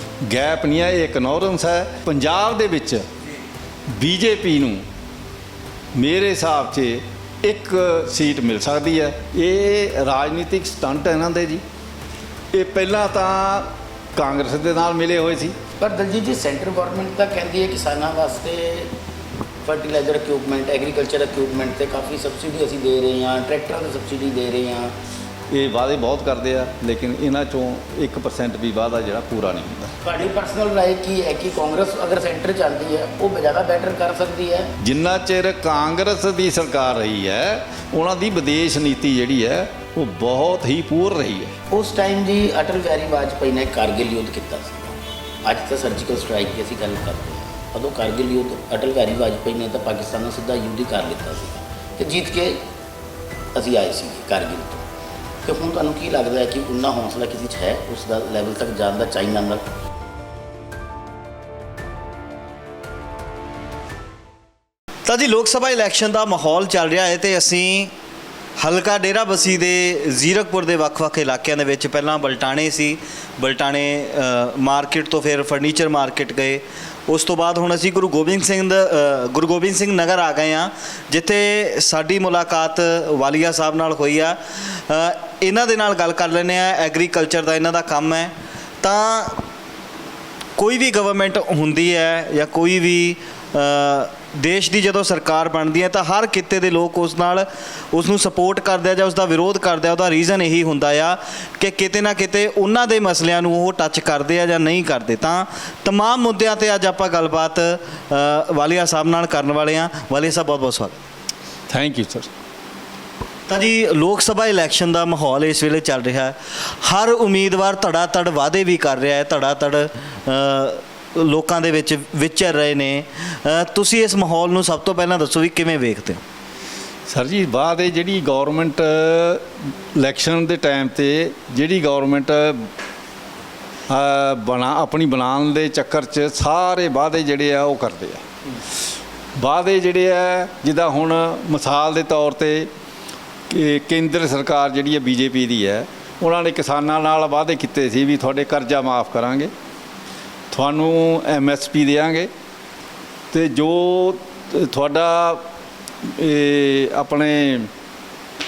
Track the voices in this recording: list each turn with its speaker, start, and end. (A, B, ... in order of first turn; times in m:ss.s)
0:00.2-0:03.1 A
0:03.9-0:04.8 A
0:05.9-0:11.6 A
0:12.5-0:15.6 A
0:15.8-0:18.9 B
0:19.6-0:24.9 B
0:25.5-0:29.9 A
0:30.0-0:34.7 B
0:34.8-0:41.5 A
0:41.7-0:52.6 B
0:53.5-0:54.8 B
0:55.4-0:59.6 B
1:05.1-1:07.9 C
1:08.6-1:29.4 C
1:30.6-1:51.0 C
1:51.7-1:52.3 A
1:53.5-2:06.2 C
2:07.1-2:12.7 A
2:13.9-2:18.2 A
2:19.4-2:22.7 A
2:23.5-2:29.5 A
2:30.5-2:32.3 A
2:33.3-2:35.5 A
2:36.0-2:37.7 A